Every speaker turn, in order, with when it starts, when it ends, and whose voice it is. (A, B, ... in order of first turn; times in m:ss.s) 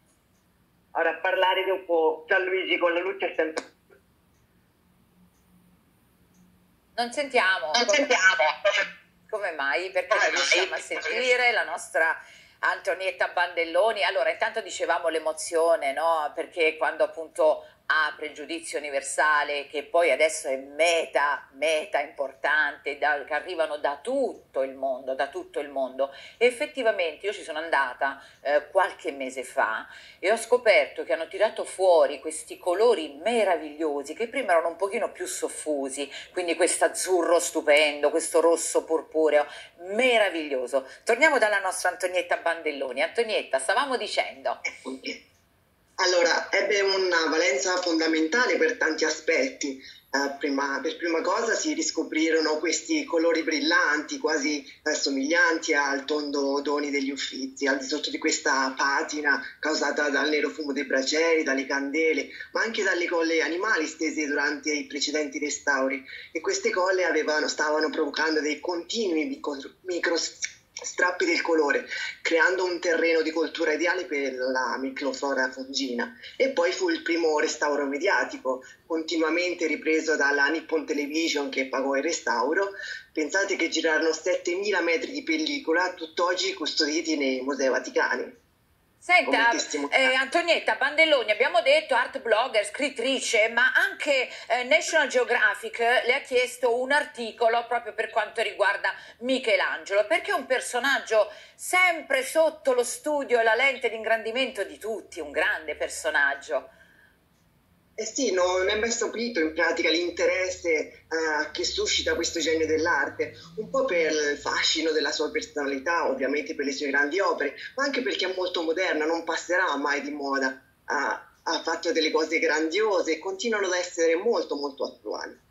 0:00.9-0:03.7 A
0:07.0-0:08.0 B
0:08.1-0:08.5 A
0:09.3-0:44.6 B
0:44.7-0:45.2 A
0:46.0-1:28.4 A
1:29.0-1:46.7 B
1:29.2-1:30.1 A
1:48.0-2:05.4 A